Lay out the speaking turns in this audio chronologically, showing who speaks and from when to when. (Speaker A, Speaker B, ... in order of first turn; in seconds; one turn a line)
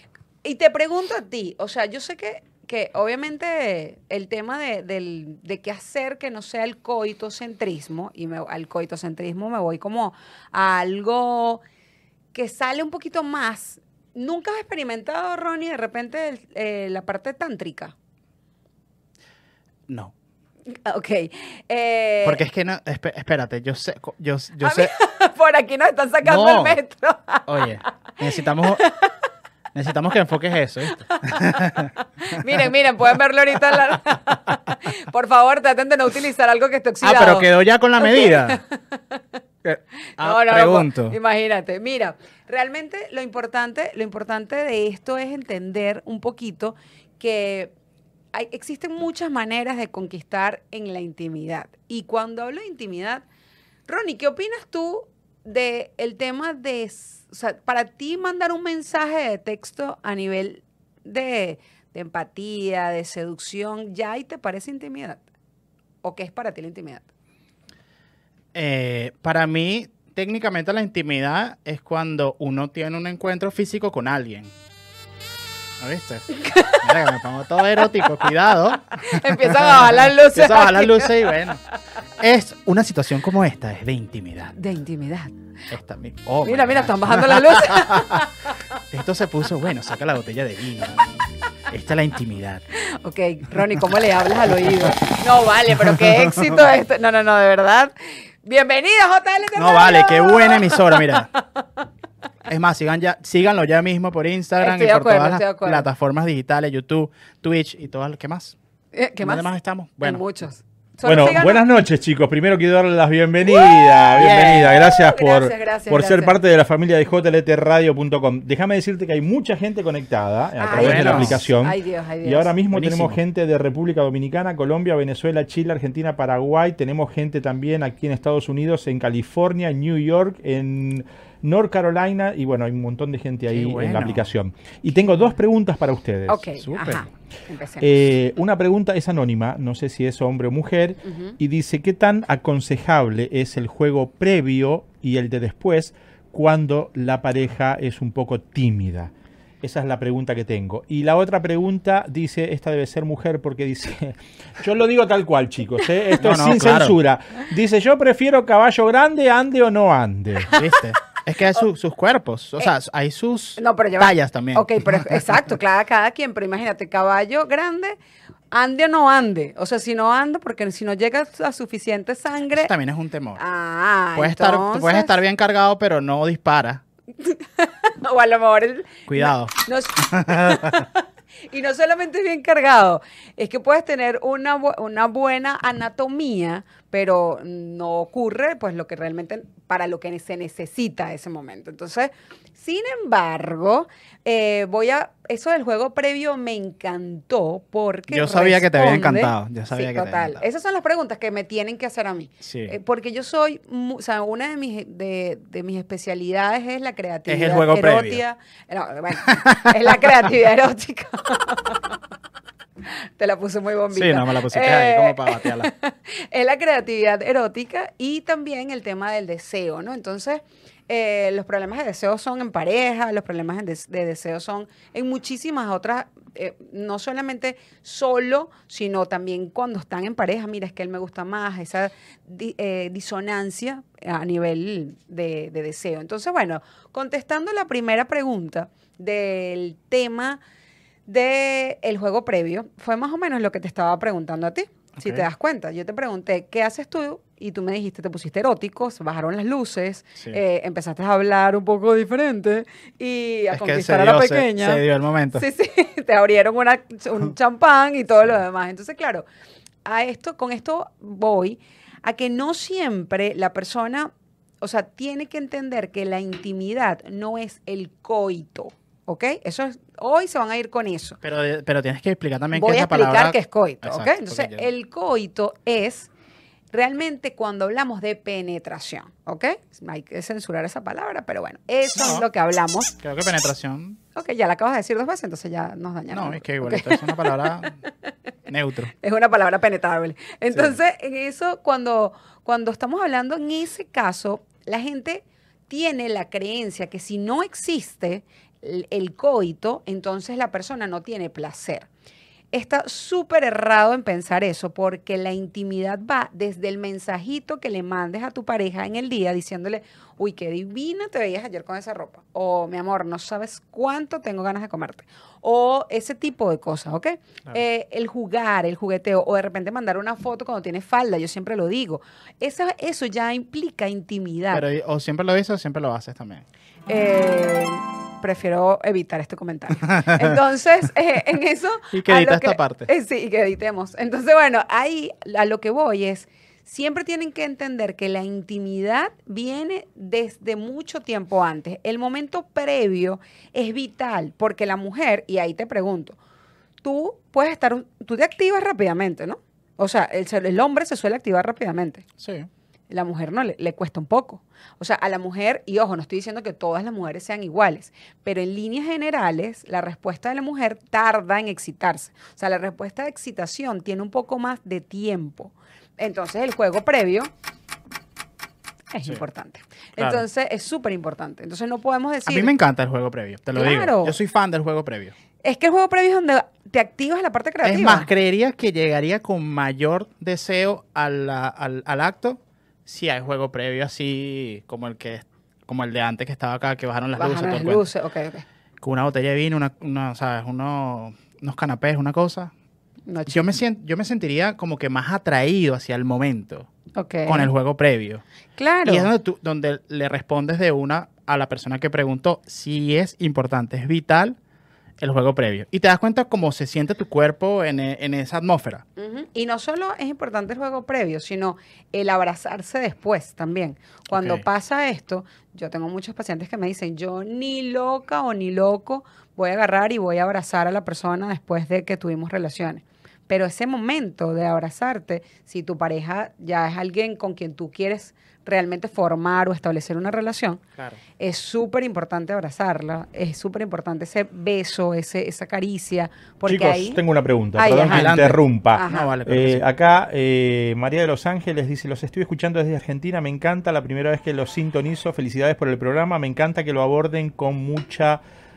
Speaker A: 0.4-11.6
Speaker A: 12.3-17.9
Speaker B: 19.9-20.1
Speaker A: 20.8-22.4
Speaker B: 22.2-24.9
Speaker A: 24.6-27.9
Speaker B: 26.2-26.8
Speaker B: 27.5-28.8
Speaker A: 28.6-29.1
Speaker B: 29.7-31.9
Speaker A: 31.1-37.5
Speaker B: 37.0-38.6
Speaker A: 38.0-39.2
Speaker B: 39.6-41.2
Speaker A: 40.2-47.7
Speaker A: 48.3-53.2
Speaker A: 53.9-65.2
Speaker A: 66.0-67.1
Speaker B: 68.5-74.5
Speaker B: 75.8-81.6
Speaker A: 76.4-76.8
Speaker A: 79.0-81.4
Speaker B: 82.2-84.5
Speaker A: 84.5-85.3
Speaker B: 85.7-88.2
Speaker A: 86.4-88.5
Speaker B: 88.9-91.1
Speaker B: 91.7-92.6
Speaker A: 92.7-101.6
Speaker B: 94.7-94.9
Speaker B: 95.8-96.6
Speaker B: 99.6-101.3
Speaker B: 102.5-108.6
Speaker A: 104.6-105.9
Speaker A: 108.9-109.5
Speaker B: 109.2-110.3
Speaker A: 110.0-111.6
Speaker C: 111.0-136.4
Speaker A: 113.4-116.4
Speaker B: 114.1-114.8
Speaker A: 120.6-122.5
Speaker B: 120.7-121.4
Speaker B: 122.7-123.2
Speaker B: 133.5-134.3
Speaker A: 136.3-137.9
Speaker B: 136.6-137.1
Speaker C: 137.8-149.1
Speaker A: 141.0-141.3
Speaker C: 149.6-160.6
Speaker B: 156.2-157.0
Speaker B: 160.5-165.5
Speaker A: 163.6-168.0
Speaker A: 168.5-172.7
Speaker B: 172.5-173.4
Speaker A: 173.4-175.1
Speaker B: 174.2-176.8
Speaker A: 177.2-211.9
Speaker B: 179.1-180.9
Speaker B: 198.1-200.4
Speaker B: 202.4-202.8
Speaker B: 207.3-208.2
Speaker B: 209.3-209.9
Speaker A: 213.0-240.4
Speaker B: 213.9-215.7
Speaker A: 241.1-259.2
Speaker B: 245.0-245.3
Speaker B: 253.5-255.5
Speaker A: 259.9-271.2
Speaker B: 271.2-274.7
Speaker A: 272.5-276.1
Speaker A: 276.7-282.9
Speaker B: 282.0-282.3
Speaker B: 283.0-284.0
Speaker A: 284.1-287.4
Speaker B: 286.1-287.7
Speaker B: 288.5-288.9
Speaker A: 289.0-301.9
Speaker A: 302.5-324.7
Speaker B: 324.5-326.5
Speaker A: 326.9-346.2
Speaker B: 330.0-330.4
Speaker B: 331.9-332.9
Speaker A: 346.8-352.0
Speaker B: 352.2-352.5
Speaker A: 352.9-367.3
Speaker A: 368.9-372.5
Speaker B: 370.0-370.3
Speaker B: 372.3-375.1
Speaker A: 373.6-374.1
Speaker A: 375.4-378.1
Speaker B: 377.6-387.9
Speaker A: 387.2-388.4
Speaker B: 388.8-392.5
Speaker A: 393.1-393.5
Speaker B: 393.3-396.7
Speaker A: 397.0-397.5
Speaker B: 397.3-398.2
Speaker A: 398.6-399.1
Speaker B: 398.9-404.4
Speaker B: 405.0-408.8
Speaker A: 409.0-430.6
Speaker B: 414.1-414.4
Speaker A: 431.2-437.0
Speaker C: 436.5-448.2
Speaker A: 437.6-438.1
Speaker B: 437.9-439.6
Speaker A: 438.7-439.1